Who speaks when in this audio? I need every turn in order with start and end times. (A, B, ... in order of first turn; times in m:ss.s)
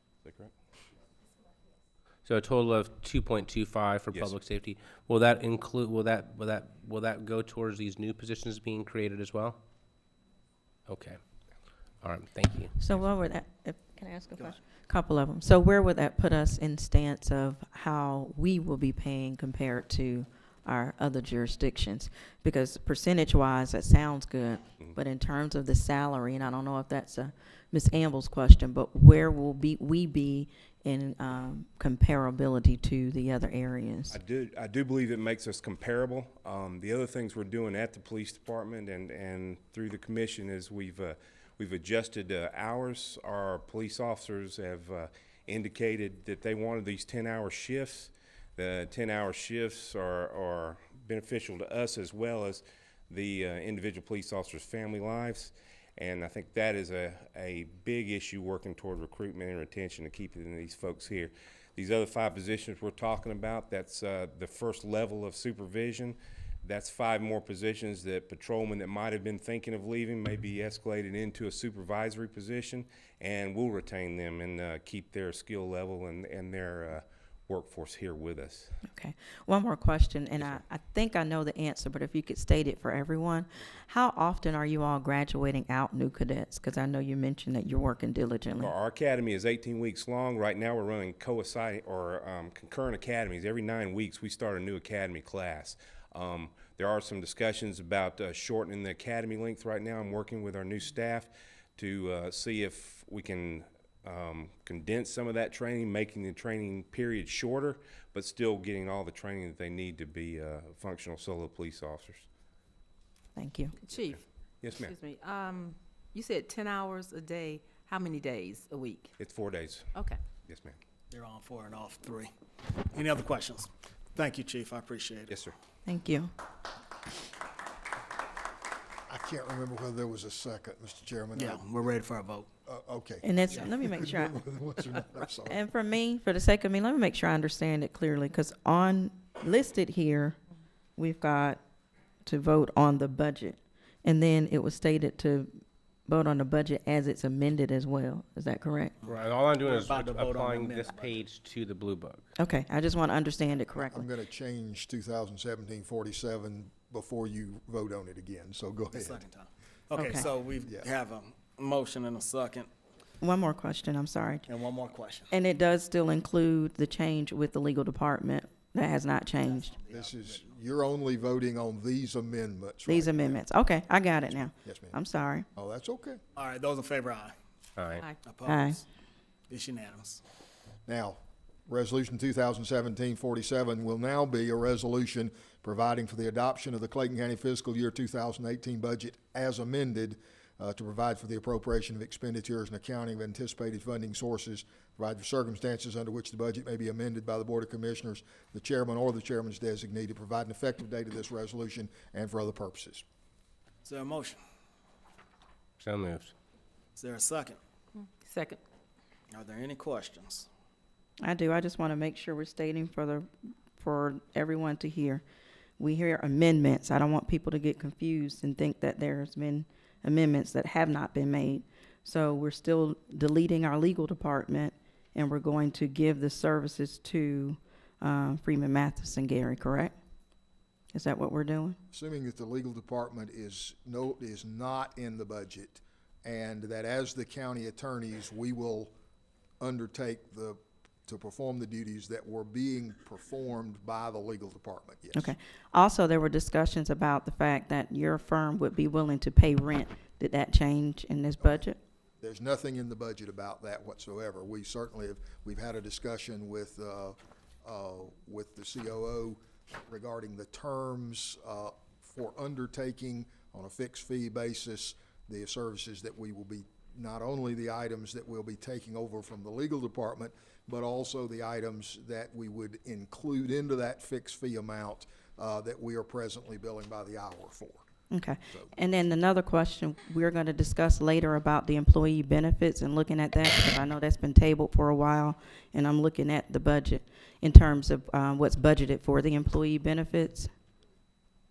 0:00.2-0:00.5 A
0:02.2-0:09.6 B
0:10.9-0:11.2 B
0:12.0-0:12.8 B
0:12.8-0:34.2 C
0:34.1-1:18.7 A
1:18.8-1:28.7 C
1:28.6-1:52.2 A
1:53.3-1:53.7 C
1:53.8-1:59.1 D
1:54.6-1:55.0 A
1:59.2-1:59.9 A
2:00.5-2:00.8 A
2:01.1-2:05.4 E
2:05.8-2:06.3 C
2:09.1-2:11.8 F
2:11.3-2:12.5 E
2:12.6-2:15.6 F
2:13.2-2:14.4 C
2:15.4-2:20.4 C
2:21.0-2:21.6 C
2:22.2-2:29.0 C
2:29.0-2:31.2 E
2:29.0-2:32.3 B
2:32.4-2:34.1 C
2:33.8-2:39.2 F
2:38.9-2:42.7 E
2:40.0-2:40.2 C
2:43.2-2:44.5 C
2:44.5-2:45.3 E
2:45.3-2:49.7 C
2:49.4-2:50.5 E
2:49.9-2:53.4 F
2:52.8-2:55.4 C
2:54.6-2:55.0 F
2:55.5-2:56.2 F
2:56.4-2:57.3 E
2:57.8-2:58.0 B
2:58.2-2:58.8 E
2:58.5-2:58.8 C
2:59.5-3:00.2 E
3:00.8-3:23.0 F
3:23.8-3:24.4 E
3:25.8-3:26.3 B
3:27.0-3:27.6 E
3:28.2-3:28.6 D
3:29.3-3:30.5 E
3:31.2-3:35.2 C
3:35.8-3:49.9 C
3:50.9-3:51.8 C
3:51.9-3:58.9 F
3:59.6-4:05.3 F
4:05.1-4:11.8 C
4:11.4-4:11.6 F
4:12.2-4:37.8 F
4:38.1-4:50.5 C